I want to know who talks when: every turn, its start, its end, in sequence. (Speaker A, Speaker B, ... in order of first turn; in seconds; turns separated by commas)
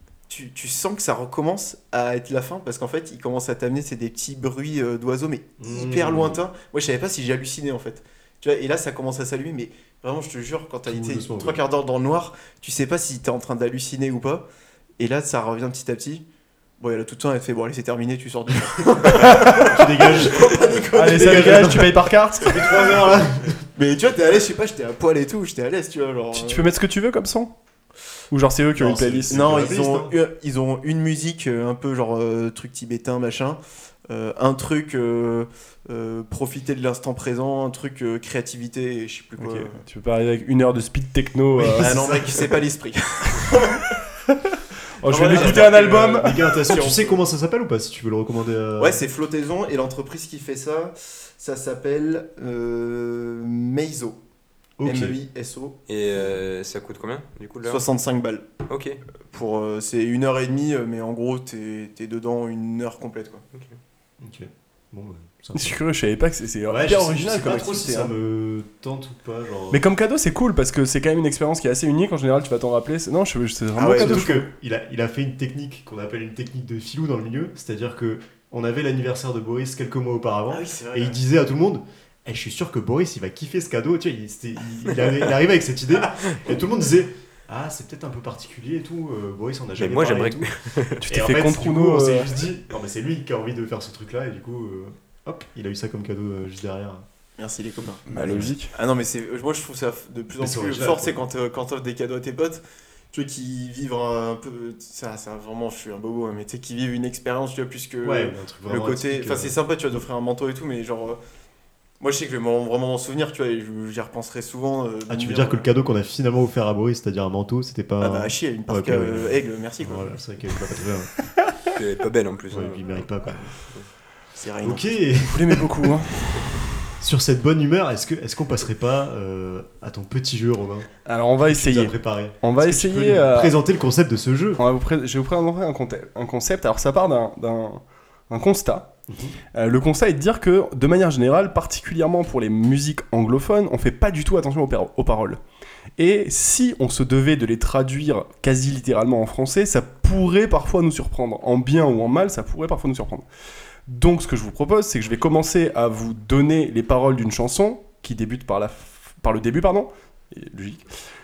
Speaker A: 0.3-14.4, Speaker B: 5.6-6.4, Speaker B: 10.9-11.6, Speaker A: 15.0-16.2, Speaker A: 16.8-21.9, Speaker B: 19.1-23.7, Speaker C: 19.2-19.8, Speaker C: 20.9-22.6, Speaker A: 23.8-26.7, Speaker C: 26.3-27.5, Speaker C: 28.3-29.4, Speaker B: 28.8-30.2, Speaker A: 29.3-39.8, Speaker C: 39.4-41.9, Speaker B: 41.6-42.5, Speaker A: 41.8-44.0, Speaker C: 44.5-46.4, Speaker A: 45.1-47.2, Speaker B: 45.2-49.0, Speaker A: 48.8-54.2, Speaker B: 54.8-55.2, Speaker A: 54.8-55.8, Speaker D: 55.9-57.9, Speaker A: 57.6-58.5, Speaker D: 58.7-59.0, Speaker A: 59.3-63.4, Speaker B: 64.2-65.8, Speaker C: 65.5-68.1, Speaker B: 66.7-69.8, Speaker C: 69.7-74.5, Speaker A: 73.8-74.3, Speaker B: 73.9-90.5, Speaker A: 80.5-81.2, Speaker D: 89.8-91.0, Speaker C: 91.0-92.3, Speaker B: 91.1-97.0, Speaker A: 97.4-102.6, Speaker C: 98.1-98.7, Speaker B: 98.1-98.5, Speaker B: 100.4-101.2, Speaker A: 103.1-111.2, Speaker B: 108.0-109.6, Speaker A: 112.0-115.7, Speaker B: 115.1-121.2, Speaker A: 118.0-120.1, Speaker D: 121.7-122.9, Speaker B: 122.5-123.4, Speaker A: 124.3-125.0, Speaker B: 124.6-125.9, Speaker C: 125.2-126.6, Speaker B: 127.0-130.9, Speaker C: 131.1-133.6, Speaker B: 131.5-134.6, Speaker C: 134.6-138.9, Speaker B: 139.1-139.4, Speaker C: 139.5-145.4, Speaker C: 146.0-153.3, Speaker C: 153.9-160.8